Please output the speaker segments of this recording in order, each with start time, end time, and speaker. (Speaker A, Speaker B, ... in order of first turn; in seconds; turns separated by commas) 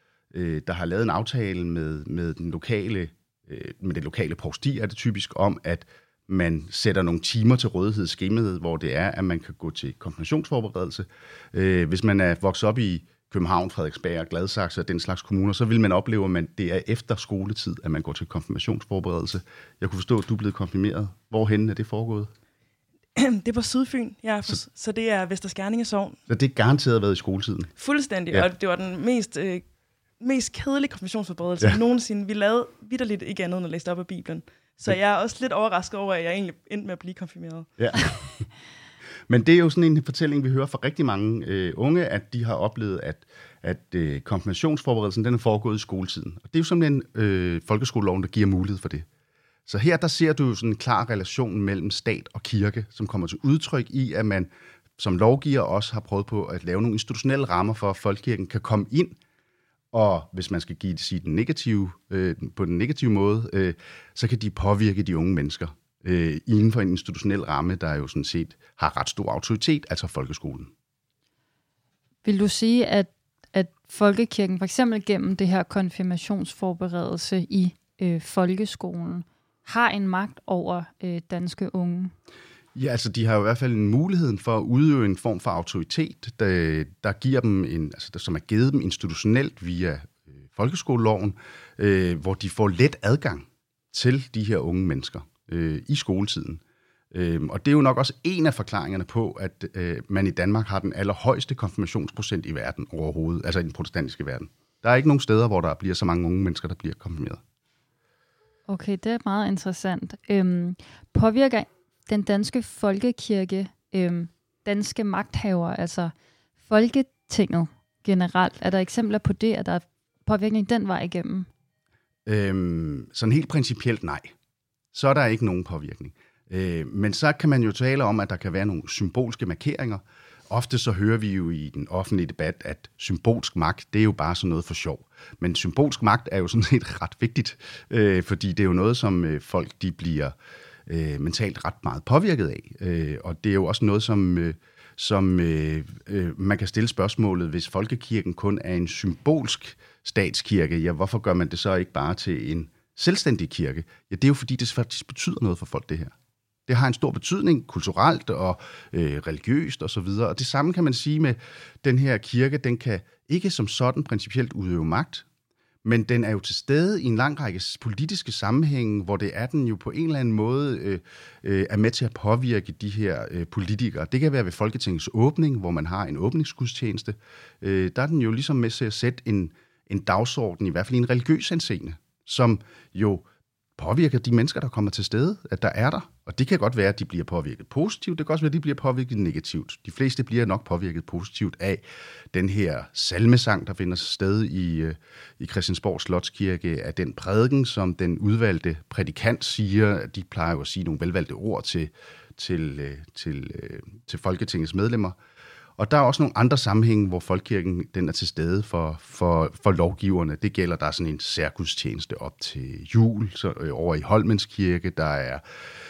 Speaker A: 0.3-22.3, Speaker B: 23.1-26.2, Speaker A: 26.3-27.7, Speaker B: 27.8-29.6, Speaker B: 30.2-37.7, Speaker A: 37.8-38.4, Speaker A: 39.3-49.0, Speaker A: 49.6-59.2, Speaker A: 59.9-70.7, Speaker C: 72.2-82.1, Speaker A: 82.7-107.4, Speaker C: 108.7-116.1, Speaker C: 116.7-121.5, Speaker A: 122.2-124.3, Speaker A: 124.9-140.3, Speaker A: 140.9-156.1, Speaker A: 156.7-165.2, Speaker A: 165.8-183.2, Speaker A: 183.8-205.2, Speaker A: 205.8-215.4